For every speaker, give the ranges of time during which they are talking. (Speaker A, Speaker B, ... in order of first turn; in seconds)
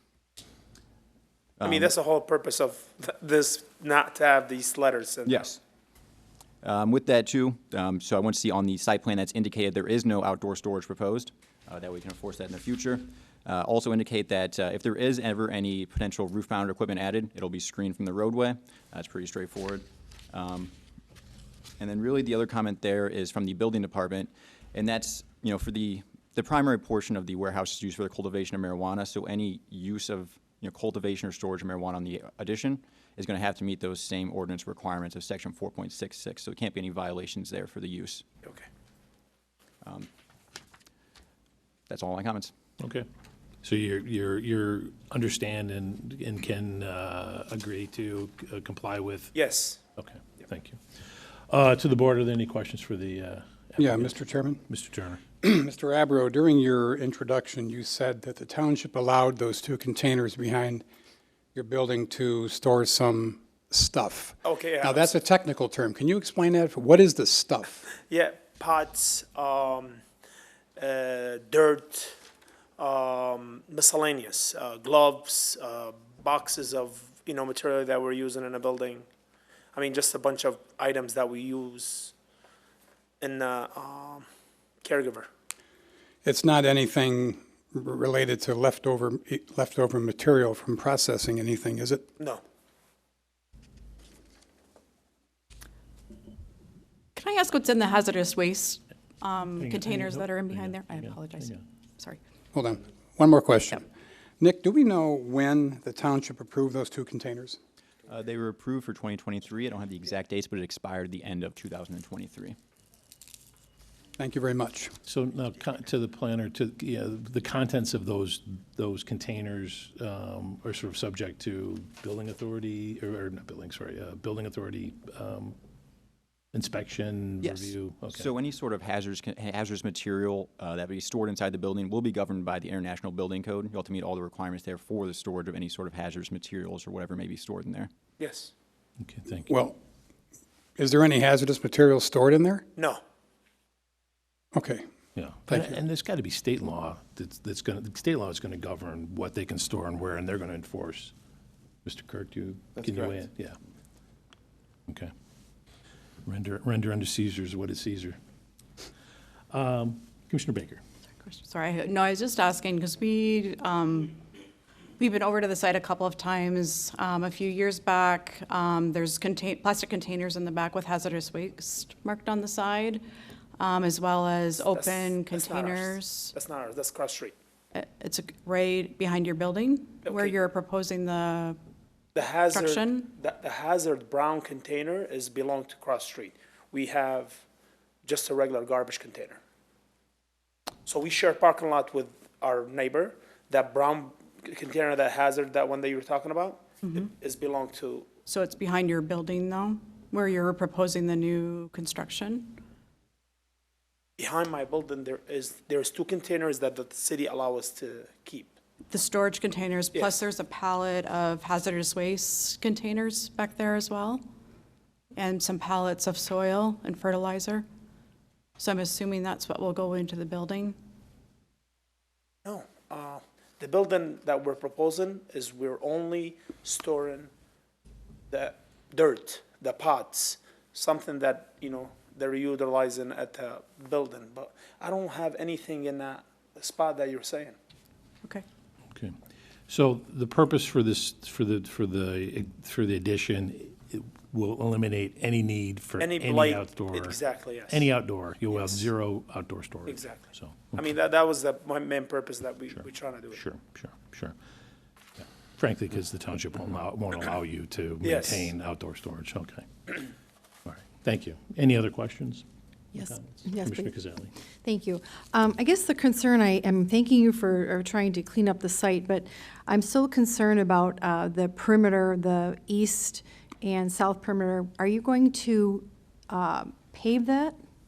Speaker A: 1.6-1.9, 5.2-5.6, 6.6-20.7, 21.8-38.2, 41.9-42.5, 108.1-112.6, 127.4-137.9
Speaker B: 1.6-5.5, 49.3-49.8, 64.4-65.1, 68.1-70.0, 70.8-72.2, 72.8-79.1, 79.7-82.1, 83.2-84.3, 84.8-85.3, 138.2-138.5, 174.8-177.3, 182.1-187.4, 188.0-189.4, 190.8-198.1, 204.2-208.5, 222.4-227.3, 228.3-237.6, 246.0-247.8, 248.5-248.8, 249.9-250.2, 250.7-253.4, 258.1-258.5
Speaker C: 42.8-43.0, 43.6-49.3, 49.9-55.2, 99.5-101.6, 115.0-125.5, 126.5-128.3, 139.0-139.5, 145.2-151.1, 151.8-153.6, 156.2-158.2, 159.5-160.8, 239.7-250.9, 252.7-254.3, 255.2-259.9, 260.6-262.4, 263.0-264.3
Speaker D: 53.8-54.6, 55.4-60.8, 61.5-67.8, 86.2-92.1, 102.5-103.9, 104.4-107.6, 114.2-114.9, 139.5-139.8, 140.8-142.7, 144.5-144.8, 145.5-145.7
Speaker E: 97.1-102.2, 161.2-164.2, 165.0-173.0, 173.6-176.3, 177.7-181.6, 182.5-183.1, 198.2-202.6, 208.9-214.2, 215.2-217.7, 218.6-220.8
Speaker F: 262.9-263.9, 264.6-277.6